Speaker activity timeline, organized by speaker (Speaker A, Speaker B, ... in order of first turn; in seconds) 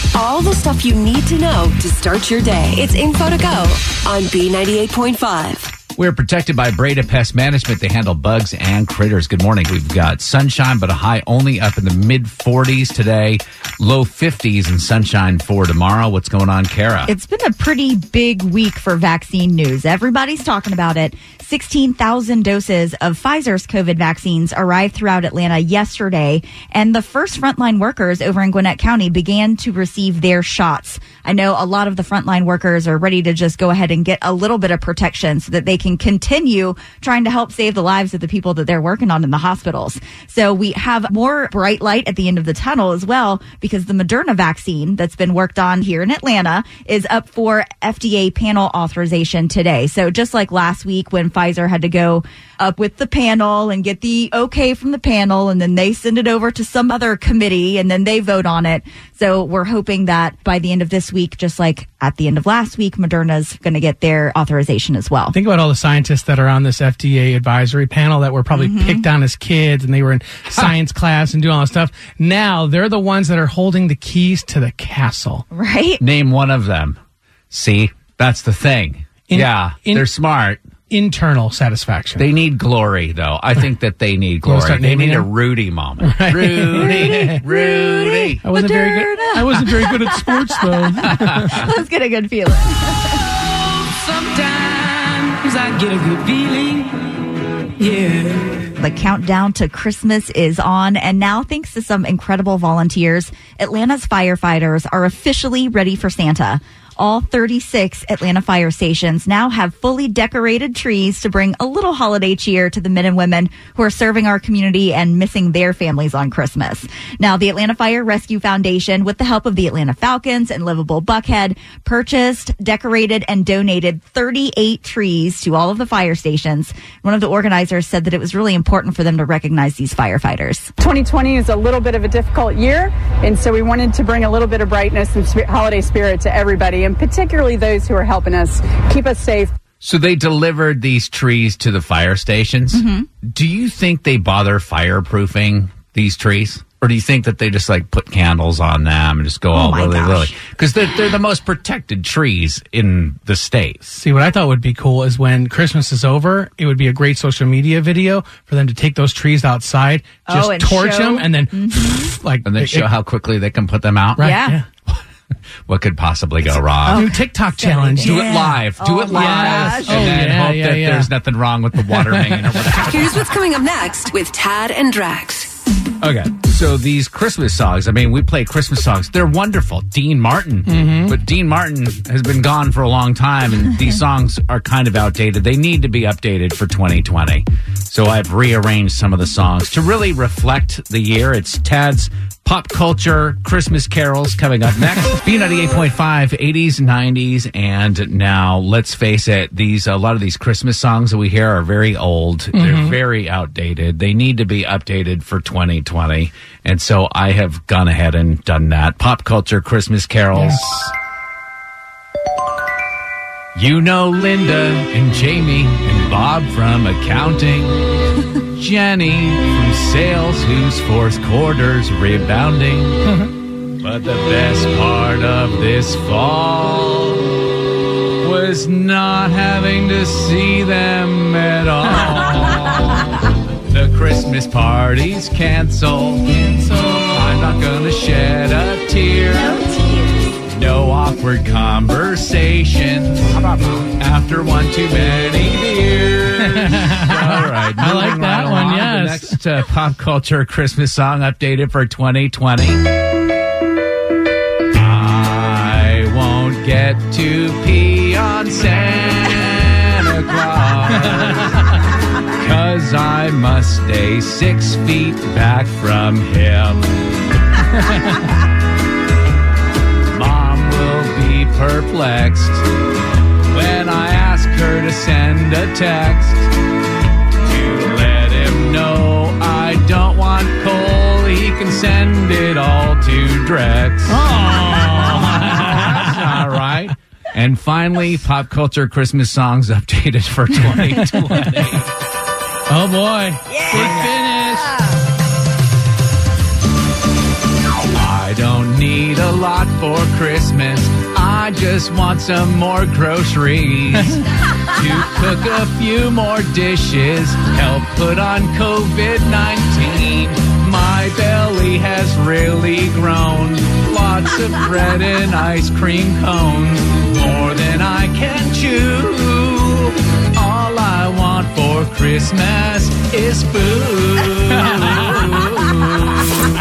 Speaker A: 0.1-5.8, 172.9-175.5
Speaker B: 6.0-17.1, 76.0-77.0, 77.5-80.6, 82.2-88.4, 91.1-91.6, 139.8-153.8, 162.4-164.3, 165.7-167.2, 168.0-173.3, 176.0-210.9, 213.5-217.8, 218.5-223.2, 223.8-227.4, 228.2-239.6, 240.5-252.8, 254.7-261.7, 262.3-267.0, 270.1-272.6, 273.5-276.5, 277.4-291.9, 293.7-294.2, 297.9-326.3
Speaker C: 17.1-65.3, 68.5-69.0, 75.5-76.0, 86.8-93.2, 98.8-130.7, 142.7-143.1, 149.5-150.4, 160.3-162.2, 164.2-164.6, 166.5-170.3, 239.3-240.4, 293.5-294.1
Speaker D: 65.3-75.5, 79.3-80.1, 80.9-82.2, 84.4-85.3, 86.0-87.4, 88.4-91.7, 153.8-162.9, 164.2-164.7, 166.9-171.1, 171.8-172.6, 180.7-181.2, 202.5-202.9, 210.3-210.7, 236.4-237.1, 246.4-249.4, 267.9-268.1, 284.1-286.5, 292.7-294.9
Speaker E: 93.9-97.0, 97.8-98.6
Speaker F: 130.8-139.5